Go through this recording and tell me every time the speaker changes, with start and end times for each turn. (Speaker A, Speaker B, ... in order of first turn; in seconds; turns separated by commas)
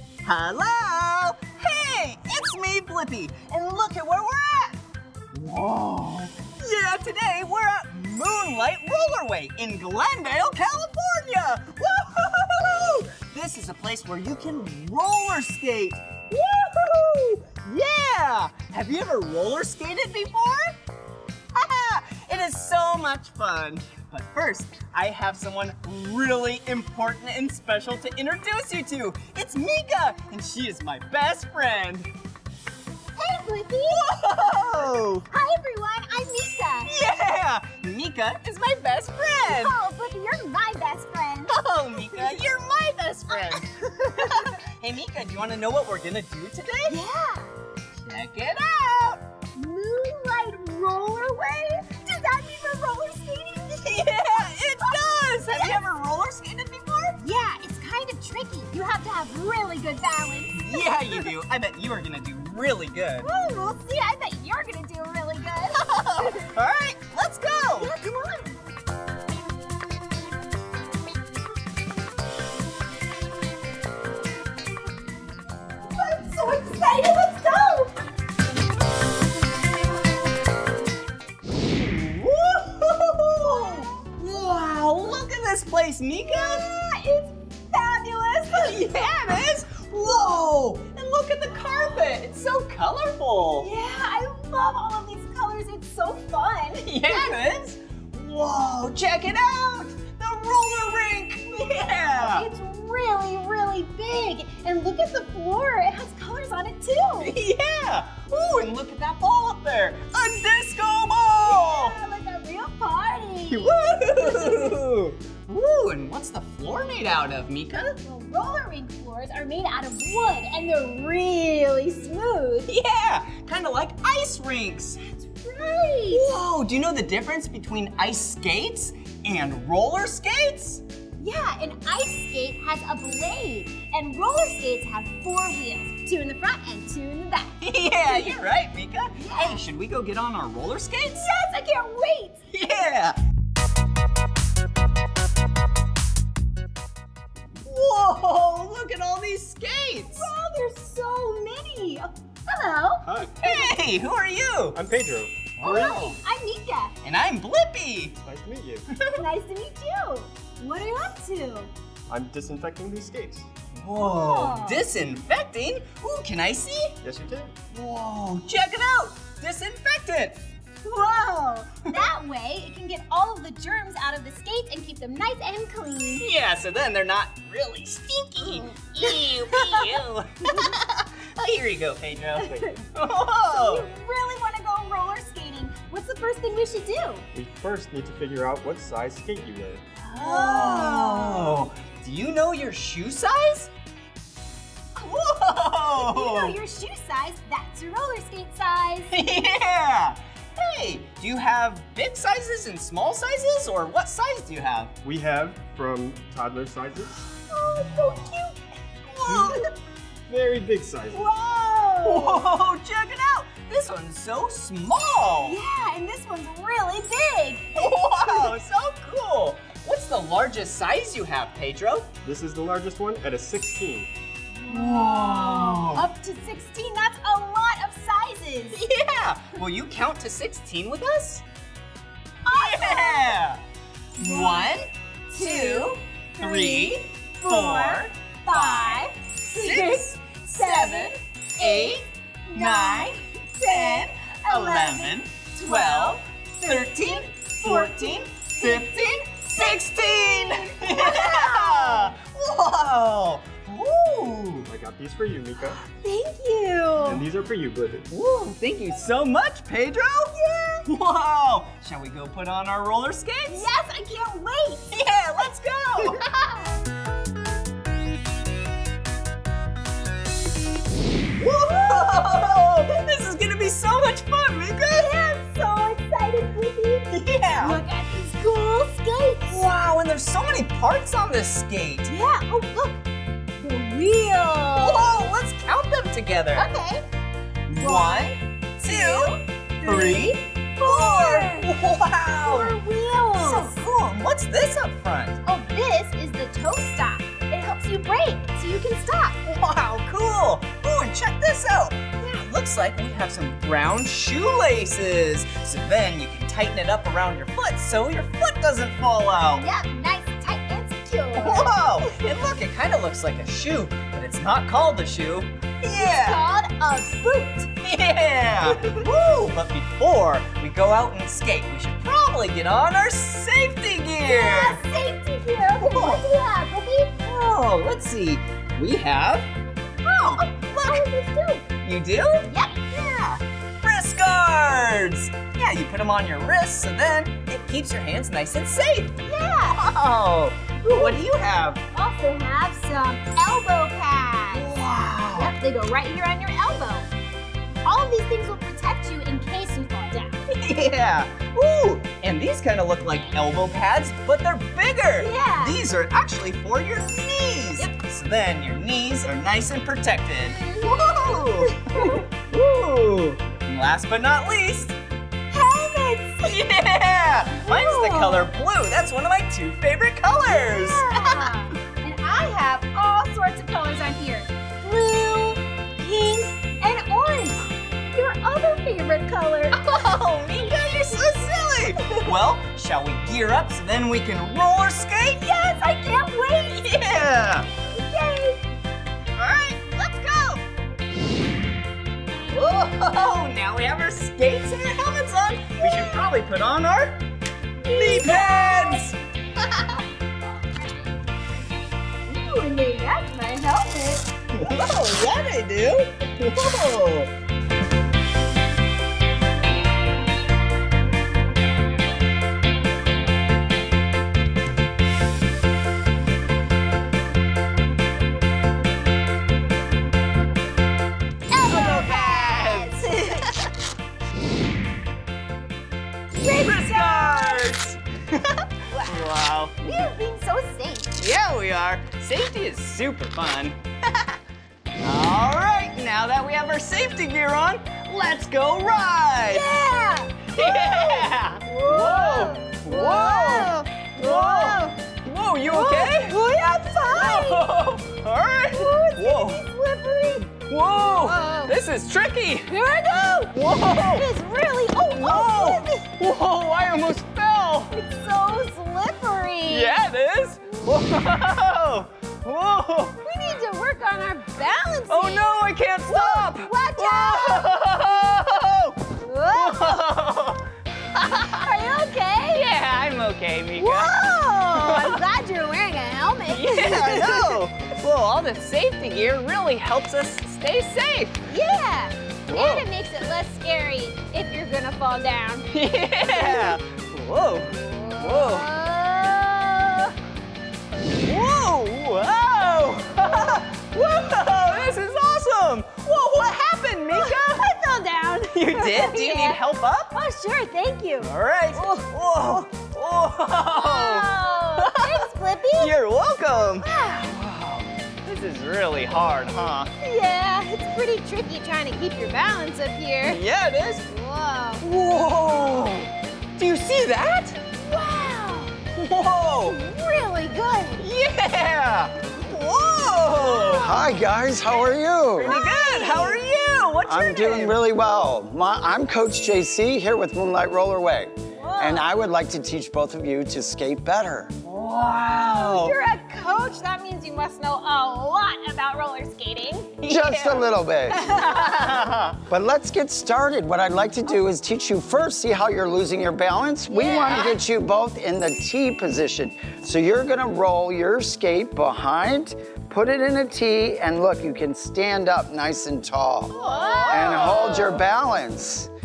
Speaker A: 0.2-20.8, Speaker A: 21.5-32.1, Speaker B: 33.2-34.1, Speaker A: 33.9-35.3, Speaker B: 35.3-36.9, Speaker A: 36.9-39.8, Speaker B: 39.4-42.2, Speaker A: 41.5-47.0, Speaker B: 43.3-44.5, Speaker B: 46.9-47.5, Speaker A: 47.9-49.2, Speaker B: 49.5-55.8, Speaker A: 53.8-57.2, Speaker B: 57.2-61.3, Speaker A: 60.5-63.3, Speaker B: 63.2-66.5, Speaker A: 65.9-67.9, Speaker B: 67.8-68.6, Speaker B: 75.9-78.0, Speaker A: 81.5-86.7, Speaker B: 83.5-84.2, Speaker B: 86.2-89.1, Speaker A: 88.5-93.7, Speaker B: 93.6-97.4, Speaker A: 96.8-102.5, Speaker B: 102.2-107.3, Speaker A: 107.2-112.0, Speaker B: 111.4-114.8, Speaker A: 113.5-118.0, Speaker B: 118.0-122.7, Speaker A: 122.7-125.0, Speaker B: 125.1-126.3, Speaker A: 126.1-130.8, Speaker B: 131.2-138.4, Speaker A: 137.6-141.3, Speaker B: 139.2-139.6, Speaker B: 141.1-142.4, Speaker A: 142.5-143.2, Speaker A: 147.7-150.3, Speaker B: 150.1-153.1, Speaker C: 153.0-153.4, Speaker A: 153.4-154.8, Speaker C: 154.7-155.5, Speaker A: 155.6-156.2, Speaker B: 155.6-156.9, Speaker A: 157.0-158.2, Speaker C: 158.2-158.9, Speaker B: 159.2-161.7, Speaker C: 162.1-163.5, Speaker A: 163.8-167.0, Speaker B: 164.0-164.8, Speaker C: 167.0-167.6, Speaker A: 167.7-170.4, Speaker B: 170.8-176.3, Speaker A: 176.2-183.9, Speaker B: 178.4-179.9, Speaker B: 180.5-180.8, Speaker B: 182.4-182.8, Speaker B: 183.5-187.2, Speaker C: 187.3-189.8, Speaker A: 190.0-193.7, Speaker B: 190.2-191.6, Speaker A: 195.0-196.6, Speaker B: 195.8-199.1, Speaker A: 199.1-204.9, Speaker C: 205.0-207.2, Speaker B: 207.5-208.6, Speaker A: 209.1-209.7, Speaker B: 209.3-209.8, Speaker C: 209.3-209.6, Speaker C: 210.3-211.3, Speaker B: 211.1-212.5, Speaker A: 212.0-215.6, Speaker B: 215.4-218.5, Speaker A: 217.7-222.1, Speaker C: 222.2-224.1, Speaker B: 224.6-228.8, Speaker A: 224.7-226.1, Speaker A: 228.7-231.4, Speaker B: 232.4-233.4, Speaker A: 232.5-233.6, Speaker A: 234.2-254.7, Speaker B: 234.2-252.1, Speaker C: 254.7-255.8, Speaker B: 255.9-257.2, Speaker C: 257.0-258.1, Speaker A: 258.1-263.7, Speaker B: 260.4-260.9, Speaker B: 263.5-264.9, Speaker A: 264.9-266.2, Speaker B: 266.1-266.6, Speaker A: 271.4-275.1, Speaker B: 275.0-279.6, Speaker A: 277.1-277.8, Speaker A: 279.5-282.1, Speaker B: 282.1-283.0, Speaker B: 283.6-285.3, Speaker A: 284.8-286.7, Speaker B: 286.5-287.1, Speaker A: 287.7-292.8, Speaker B: 287.8-288.2, Speaker B: 288.8-291.7, Speaker B: 292.4-293.8, Speaker A: 293.3-295.4, Speaker B: 295.4-299.4, Speaker A: 299.4-309.7, Speaker B: 309.5-312.1, Speaker A: 311.3-316.4, Speaker B: 315.9-317.7, Speaker A: 317.8-324.8, Speaker B: 324.2-327.1, Speaker A: 325.8-326.3, Speaker A: 327.2-329.5, Speaker A: 330.1-331.0, Speaker B: 330.4-331.7, Speaker A: 331.8-339.2, Speaker B: 332.4-332.8, Speaker B: 339.2-339.8, Speaker A: 339.7-341.8, Speaker B: 340.8-341.2, Speaker B: 341.9-344.7, Speaker A: 344.5-345.6, Speaker B: 345.4-347.1, Speaker B: 347.8-350.4, Speaker A: 350.5-365.0, Speaker B: 355.1-355.8, Speaker B: 360.4-362.2, Speaker B: 365.5-366.6, Speaker A: 366.4-371.4, Speaker B: 367.6-368.5, Speaker B: 370.3-380.0, Speaker A: 379.7-385.6, Speaker B: 380.8-382.3, Speaker B: 385.4-387.0, Speaker A: 386.8-387.7, Speaker B: 387.9-388.6, Speaker A: 389.4-390.6, Speaker A: 392.5-397.2, Speaker B: 395.8-396.3, Speaker B: 397.8-399.1, Speaker A: 397.9-399.2, Speaker B: 402.2-404.3, Speaker A: 404.5-407.3, Speaker B: 421.5-423.5, Speaker A: 421.7-423.7, Speaker B: 426.4-427.7, Speaker A: 426.5-430.1, Speaker B: 428.9-429.2, Speaker B: 429.8-431.1, Speaker A: 431.1-434.3, Speaker A: 435.0-439.8, Speaker B: 439.4-444.9, Speaker A: 440.5-446.4, Speaker B: 445.7-447.6, Speaker A: 447.1-449.6, Speaker B: 448.7-451.7, Speaker A: 450.5-454.3, Speaker B: 452.7-456.1, Speaker A: 455.2-457.9, Speaker B: 457.9-460.1, Speaker A: 459.7-463.2, Speaker B: 463.2-467.7, Speaker A: 465.1-471.7, Speaker B: 469.2-470.0, Speaker B: 471.2-472.7, Speaker A: 472.5-475.2, Speaker B: 473.8-477.6, Speaker A: 476.5-481.4, Speaker B: 481.5-485.7, Speaker A: 482.5-482.9, Speaker A: 485.7-488.7, Speaker B: 486.2-486.8, Speaker B: 487.8-490.1, Speaker A: 491.2-497.7, Speaker B: 497.1-502.1, Speaker A: 498.5-500.1, Speaker A: 501.2-509.9, Speaker B: 503.7-506.0, Speaker B: 506.8-507.3, Speaker B: 510.0-513.4, Speaker A: 513.2-514.1, Speaker B: 514.1-514.8, Speaker A: 514.8-517.6, Speaker B: 517.8-518.8, Speaker A: 518.9-519.8, Speaker B: 519.6-521.0, Speaker A: 521.0-524.0, Speaker B: 523.3-524.1, Speaker D: 523.8-525.6, Speaker A: 525.3-527.8, Speaker B: 525.5-526.4, Speaker D: 527.1-534.5, Speaker B: 531.6-532.1, Speaker A: 534.6-536.0, Speaker B: 535.3-539.9, Speaker A: 540.0-542.4, Speaker D: 540.1-541.3, Speaker B: 541.2-541.9, Speaker D: 542.5-556.5, Speaker B: 546.9-547.6, Speaker A: 547.3-547.5, Speaker A: 556.5-558.0, Speaker B: 556.5-557.9, Speaker D: 557.1-558.9